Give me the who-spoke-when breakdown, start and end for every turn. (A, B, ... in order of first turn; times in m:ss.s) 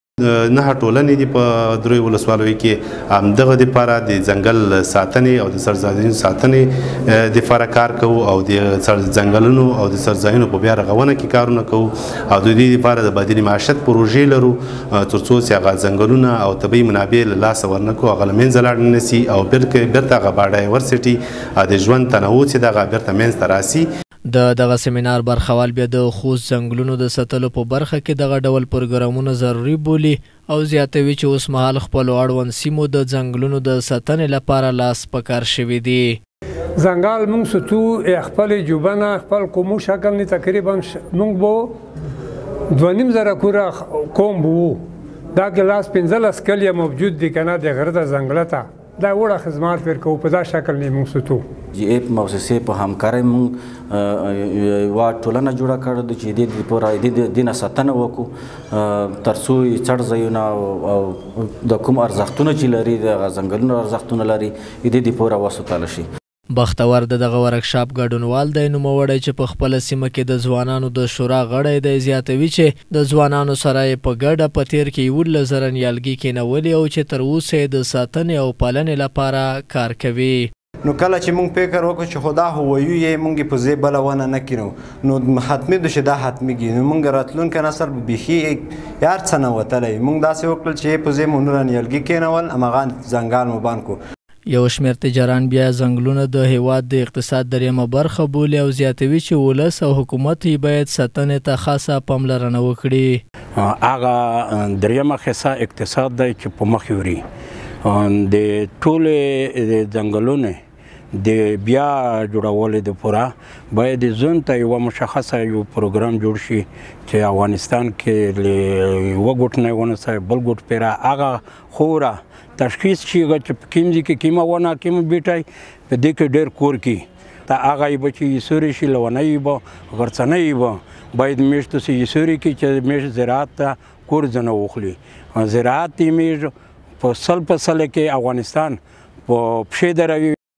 0:00.3-0:23.8 A
0:24.3-0:36.2 B
0:36.8-0:41.7 C
0:42.7-0:44.8 C
0:45.4-0:51.4 C
0:51.7-1:06.1 D
1:06.5-1:20.5 B
1:20.8-1:34.0 E
1:34.5-1:43.2 B
1:43.6-1:47.2 F
1:47.8-1:50.6 F
1:51.1-2:20.4 F